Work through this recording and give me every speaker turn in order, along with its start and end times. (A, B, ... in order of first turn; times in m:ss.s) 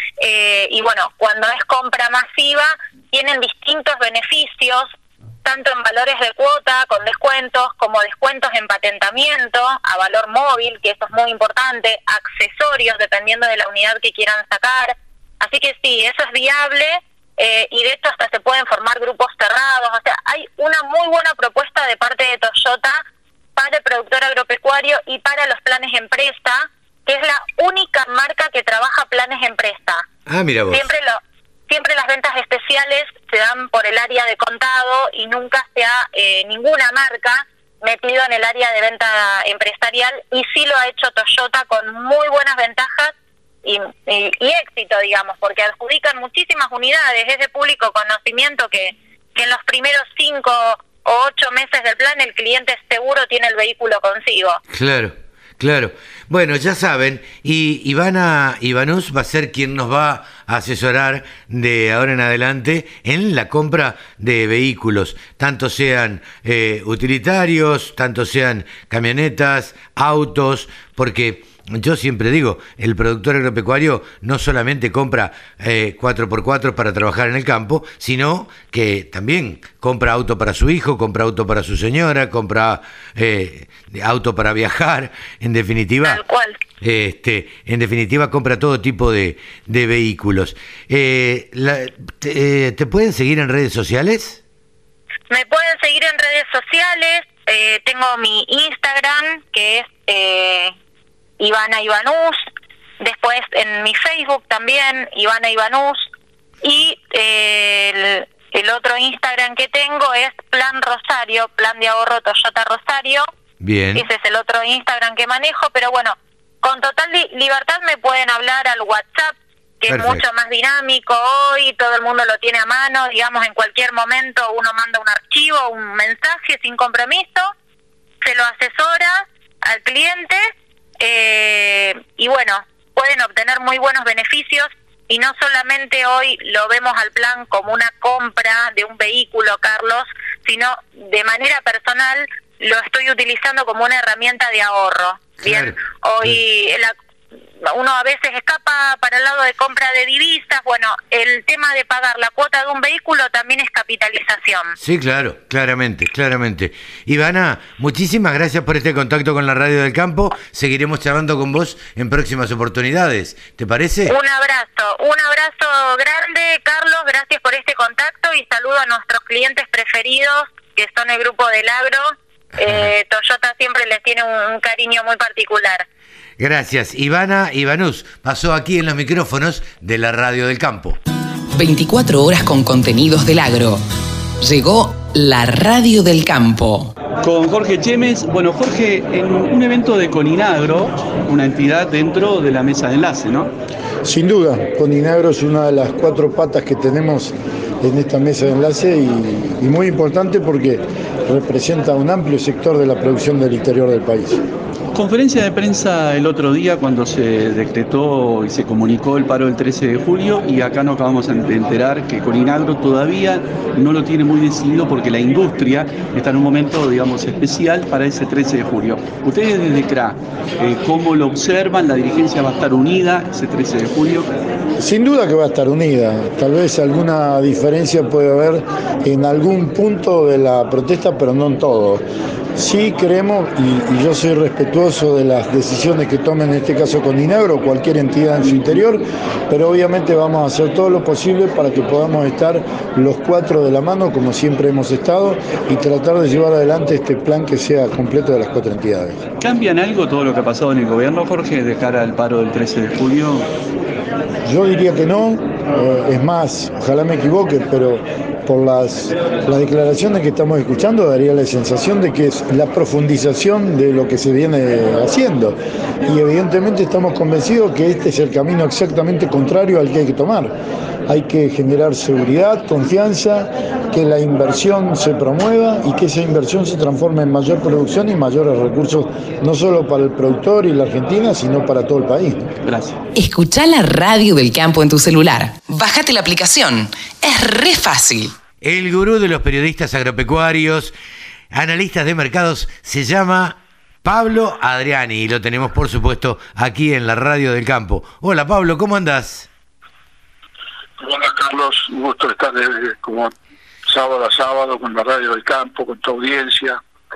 0:00.2-0:04.9 A
0:05.4-0:23.0 A
0:23.6-0:30.0 A
0:30.3-0:30.9 B
0:30.7-0:54.6 A
0:54.7-1:26.2 B
1:26.0-1:26.6 A
1:26.8-1:34.4 B
1:35.3-1:40.7 A
1:41.4-1:42.4 A
1:43.0-1:46.1 A
1:46.6-1:53.2 A
1:53.6-1:54.1 B
1:54.0-2:07.5 A
1:59.9-2:00.2 B
2:08.2-2:10.4 A
2:11.0-2:26.9 A
2:25.4-2:26.4 B
2:27.6-2:34.7 A
2:34.8-2:44.2 B
2:44.1-2:52.0 A
2:52.6-2:55.8 A
2:52.6-2:52.9 B
2:56.4-3:01.0 B
3:01.6-3:03.8 C
3:04.4-3:06.9 C
3:07.2-3:13.5 D
3:14.0-3:24.4 E
3:24.9-3:44.3 D
3:44.8-3:52.0 E
3:52.6-4:09.2 E
4:09.4-4:13.5 D
4:14.4-4:30.5 E
4:31.1-4:42.4 E
4:42.6-4:43.0 D
4:43.2-4:48.4 C
4:48.6-4:50.9 B
4:51.5-4:59.5 B
5:01.1-5:03.3 F
5:04.0-5:06.7 F